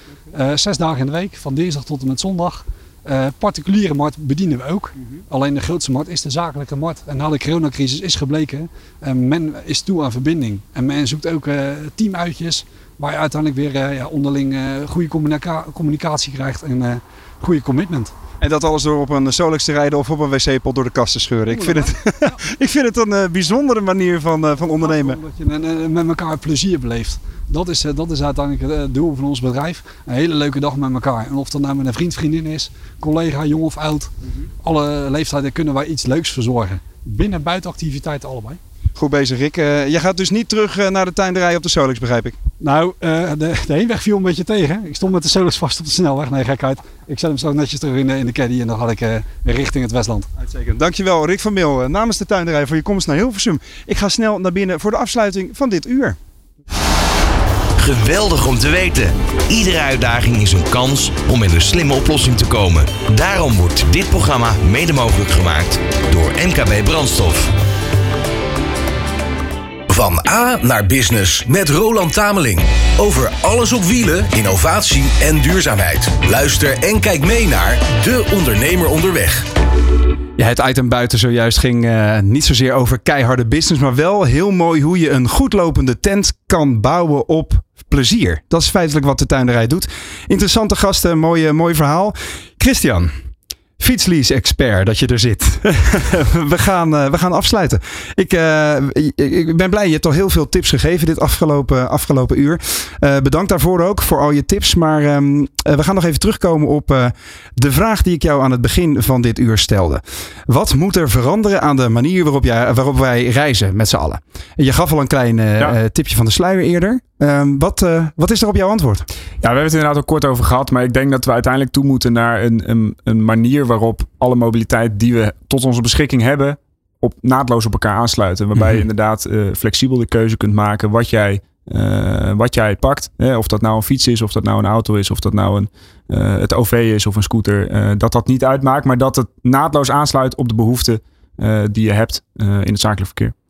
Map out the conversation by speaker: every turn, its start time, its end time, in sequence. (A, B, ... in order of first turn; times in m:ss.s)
0:00.3-0:18.1 A
0:18.4-0:25.2 B
0:21.5-0:22.0 A
0:24.8-0:34.1 A
0:34.6-0:38.6 A
0:39.0-0:42.4 B
0:42.6-0:50.3 A
0:50.4-0:56.2 B
0:57.8-1:07.5 C
1:09.9-1:19.5 D
1:20.4-1:33.1 B
1:33.8-1:59.1 B
1:59.4-2:23.3 E